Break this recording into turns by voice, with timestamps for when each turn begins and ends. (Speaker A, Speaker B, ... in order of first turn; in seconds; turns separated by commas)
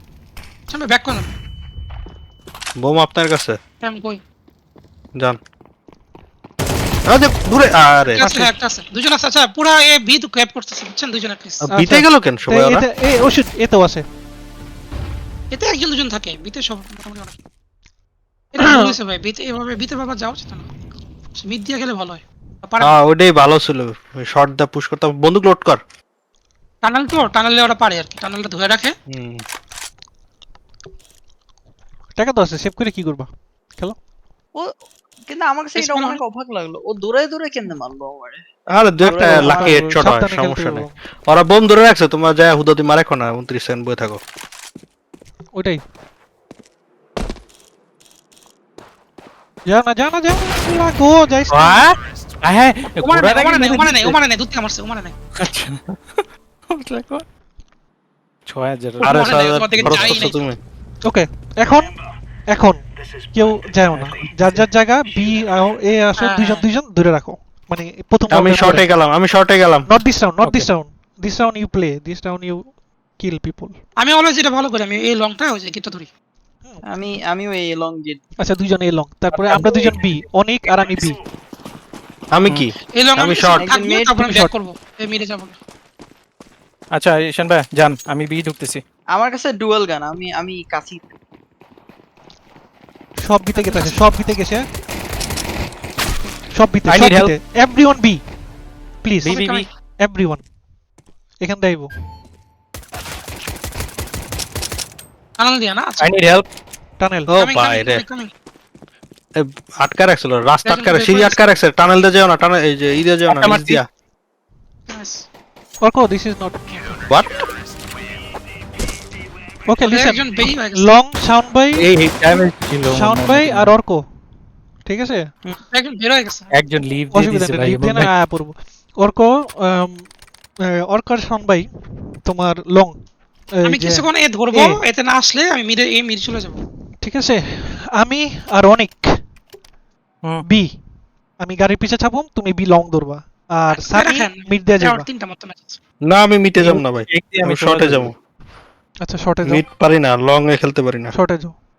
Speaker A: 0.7-1.3, Speaker B: 2.8-3.6, Speaker A: 3.8-4.2, Speaker B: 7.1-8.2, Speaker A: 8.0-11.7, Speaker C: 8.2-8.5, Speaker B: 11.6-12.8, Speaker C: 11.7-14.0, Speaker A: 15.5-17.3, Speaker A: 18.5-20.6, Speaker A: 21.4-22.9, Speaker B: 22.8-25.8, Speaker A: 26.8-28.9, Speaker B: 29.1-29.4, Speaker C: 32.2-34.0, Speaker D: 35.3-38.4, Speaker A: 35.8-36.2, Speaker B: 38.7-44.2, Speaker D: 39.0-39.9, Speaker C: 39.3-40.9, Speaker C: 45.5-45.8, Speaker C: 49.7-51.9, Speaker E: 51.5-54.2, Speaker A: 53.0-55.1, Speaker E: 55.4-57.2, Speaker E: 58.5-60.3, Speaker A: 59.0-60.4, Speaker B: 59.0-60.6, Speaker C: 61.0-61.9, Speaker C: 62.5-68.8, Speaker E: 64.0-64.6, Speaker A: 66.2-66.6, Speaker B: 68.3-69.9, Speaker C: 69.9-73.8, Speaker E: 70.4-70.7, Speaker A: 74.0-76.1, Speaker C: 76.7-77.0, Speaker D: 76.8-78.2, Speaker C: 78.4-81.2, Speaker E: 79.3-79.8, Speaker B: 82.3-83.6, Speaker A: 83.0-85.6, Speaker D: 83.6-84.4, Speaker E: 86.9-88.8, Speaker D: 89.1-91.1, Speaker C: 93.2-94.6, Speaker A: 93.6-94.0, Speaker C: 96.5-98.2, Speaker E: 96.9-97.3, Speaker C: 99.0-99.4, Speaker A: 99.2-99.7, Speaker E: 99.2-99.7, Speaker C: 100.0-100.4, Speaker C: 101.4-101.9, Speaker A: 105.4-106.1, Speaker E: 106.0-106.5, Speaker C: 107.0-107.3, Speaker B: 107.3-108.0, Speaker A: 107.4-108.3, Speaker B: 109.3-113.8, Speaker A: 110.6-111.5, Speaker E: 113.3-113.8, Speaker A: 114.9-115.3, Speaker C: 115.8-117.0, Speaker C: 119.7-121.8, Speaker A: 119.8-120.9, Speaker E: 121.8-123.7, Speaker C: 122.8-124.0, Speaker C: 124.8-125.3, Speaker A: 125.7-126.5, Speaker E: 126.5-128.1, Speaker C: 127.1-130.1, Speaker C: 130.6-131.7, Speaker C: 132.2-132.9, Speaker C: 133.6-134.8, Speaker A: 133.6-136.6, Speaker C: 137.0-139.1, Speaker C: 140.4-140.8, Speaker C: 141.4-145.1, Speaker A: 143.7-145.8, Speaker B: 146.1-148.1, Speaker E: 146.6-148.1, Speaker C: 149.0-149.6, Speaker B: 149.4-151.1, Speaker C: 151.1-151.5